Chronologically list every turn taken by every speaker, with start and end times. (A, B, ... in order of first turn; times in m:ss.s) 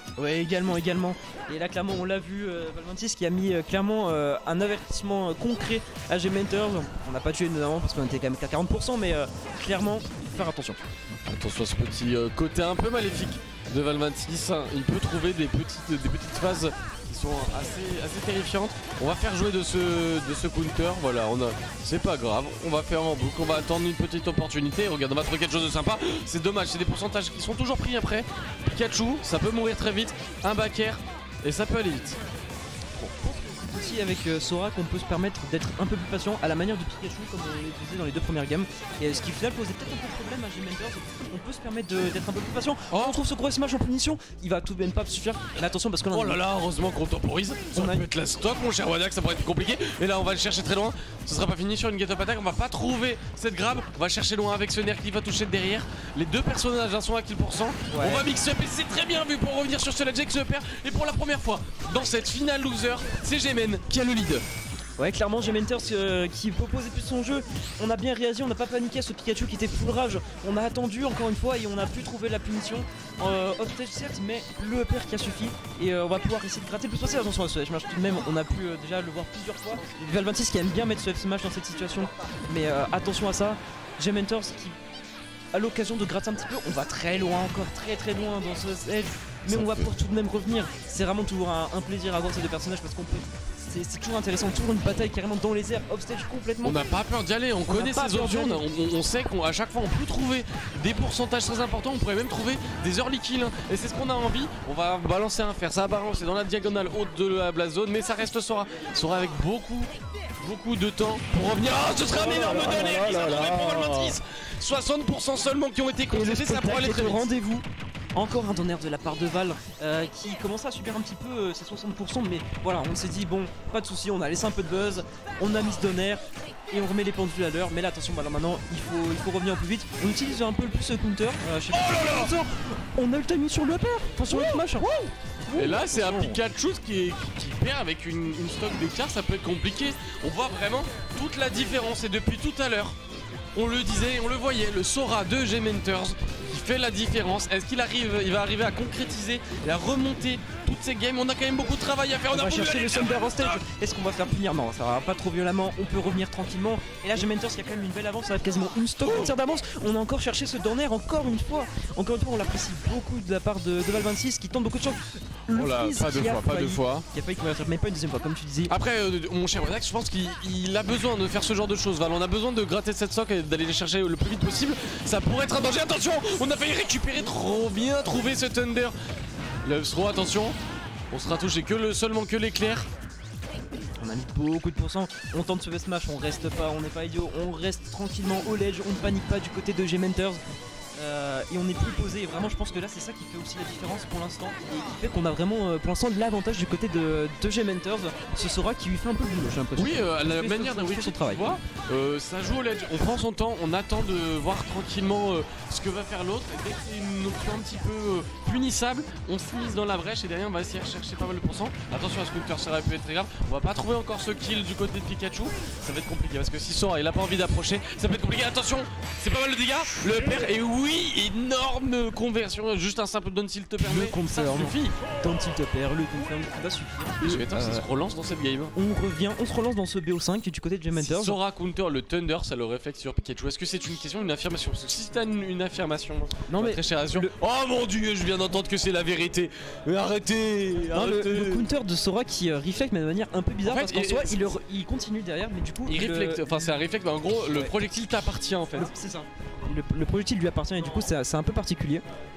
0:00.2-0:10.8 A
0:11.3-0:32.2 B
0:33.0-0:46.4 A
0:42.9-0:43.2 B
0:46.1-1:04.4 B
0:47.8-0:48.0 A
0:57.9-0:58.2 A
1:05.0-1:24.8 A
1:25.5-1:36.8 A
1:29.5-1:29.9 B
1:36.6-1:57.3 B
1:37.7-1:38.6 A
1:52.0-1:54.1 A
1:56.1-2:16.4 A
2:11.7-2:12.3 B
2:14.3-2:14.6 B
2:15.5-2:23.0 B
2:23.6-2:33.6 B
2:32.3-2:48.7 A
2:39.0-2:39.3 B
2:45.5-2:47.1 B
2:48.7-2:59.0 B
2:59.6-3:00.6 B
3:01.1-3:02.9 B
3:04.0-3:10.4 A
3:11.0-3:21.5 A
3:19.8-3:45.0 B
3:43.8-3:47.8 A
3:47.2-3:48.7 B
3:48.8-3:51.4 A
3:50.9-4:01.6 B
3:56.5-3:57.3 A
4:00.9-4:06.8 A
4:03.6-4:04.6 B
4:05.9-4:08.9 B
4:07.4-4:07.8 A
4:08.7-4:12.0 A